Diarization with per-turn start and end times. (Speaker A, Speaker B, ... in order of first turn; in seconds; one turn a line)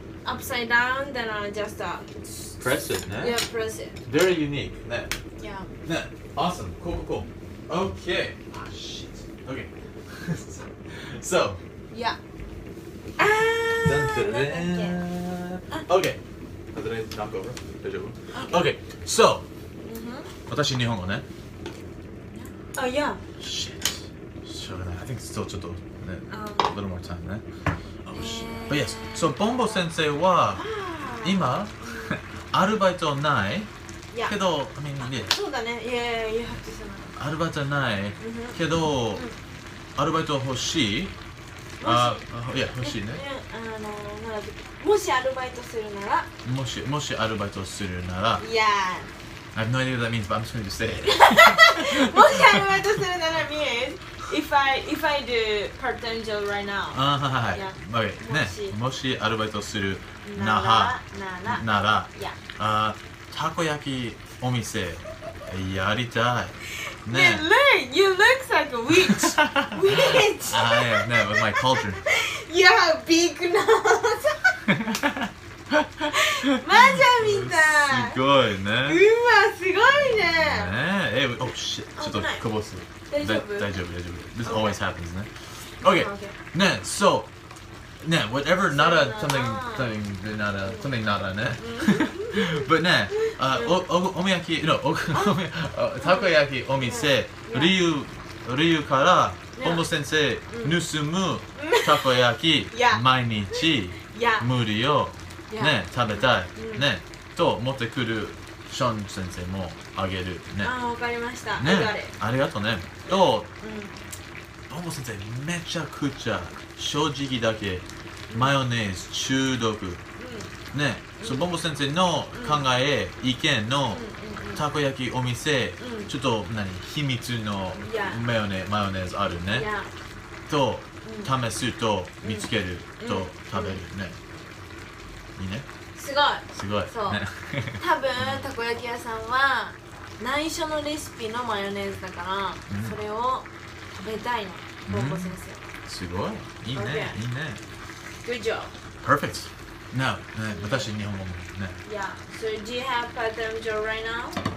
Speaker A: 0.2-4.0
Speaker B: 2.6-3.4
Speaker B: 4.0-5.2
Speaker A: 5.4-5.7
Speaker B: 5.8-11.6
Speaker A: 11.9-12.2
Speaker A: 13.2-15.0
Speaker B: 13.8-16.2
Speaker B: 16.7-19.4
Speaker A: 18.3-18.7
Speaker A: 19.8-20.3
Speaker B: 20.5-21.2
Speaker A: 22.3-23.2
Speaker B: 23.4-27.4
Speaker A: 26.3-26.7
Speaker B: 28.1-30.6
Speaker A: 28.1-29.9
Speaker A: 30.5-32.2
Speaker B: 31.2-33.7
Speaker A: 34.1-34.4
Speaker B: 34.3-35.3
Speaker A: 35.0-37.1
Speaker B: 37.2-39.2
Speaker A: 38.2-38.6
Speaker A: 39.1-39.4
Speaker B: 40.0-41.1
Speaker A: 41.8-42.2
Speaker B: 41.8-43.2
Speaker A: 42.8-46.3
Speaker B: 46.4-48.4
Speaker A: 48.4-49.1
Speaker B: 49.5-52.8
Speaker A: 51.0-58.8
Speaker B: 56.9-67.4
Speaker A: 60.2-62.4
Speaker A: 67.0-74.5
Speaker B: 68.9-72.0
Speaker B: 74.6-79.0
Speaker A: 76.1-78.2
Speaker A: 78.8-80.7
Speaker B: 79.9-87.3
Speaker A: 82.0-82.5
Speaker A: 83.1-83.7
Speaker A: 84.4-84.8
Speaker A: 85.8-86.4
Speaker B: 88.0-110.7
Speaker A: 88.7-90.0
Speaker A: 90.6-91.0
Speaker A: 91.5-93.8
Speaker A: 96.0-97.7
Speaker A: 99.5-99.9
Speaker A: 100.5-100.8
Speaker A: 101.5-102.1
Speaker A: 102.7-104.5
Speaker A: 105.5-106.9
Speaker A: 110.6-112.1
Speaker B: 111.5-113.5
Speaker A: 113.1-114.0
Speaker B: 114.7-120.0
Speaker A: 118.3-118.5
Speaker A: 120.2-120.5
Speaker B: 120.7-124.0
Speaker A: 121.2-121.5
Speaker A: 122.3-122.7
Speaker A: 123.9-124.6
Speaker B: 124.5-129.7
Speaker A: 125.8-126.1
Speaker A: 127.8-128.2
Speaker A: 129.5-129.9
Speaker B: 130.5-134.2
Speaker A: 131.0-131.3
Speaker A: 132.2-133.8
Speaker B: 135.3-135.7
Speaker A: 135.9-137.2
Speaker B: 136.5-138.4
Speaker A: 137.8-145.7
Speaker B: 142.7-142.9
Speaker B: 144.9-147.6
Speaker A: 146.7-147.2
Speaker A: 148.2-148.7
Speaker B: 149.0-151.8
Speaker A: 150.5-150.9
Speaker A: 151.8-154.4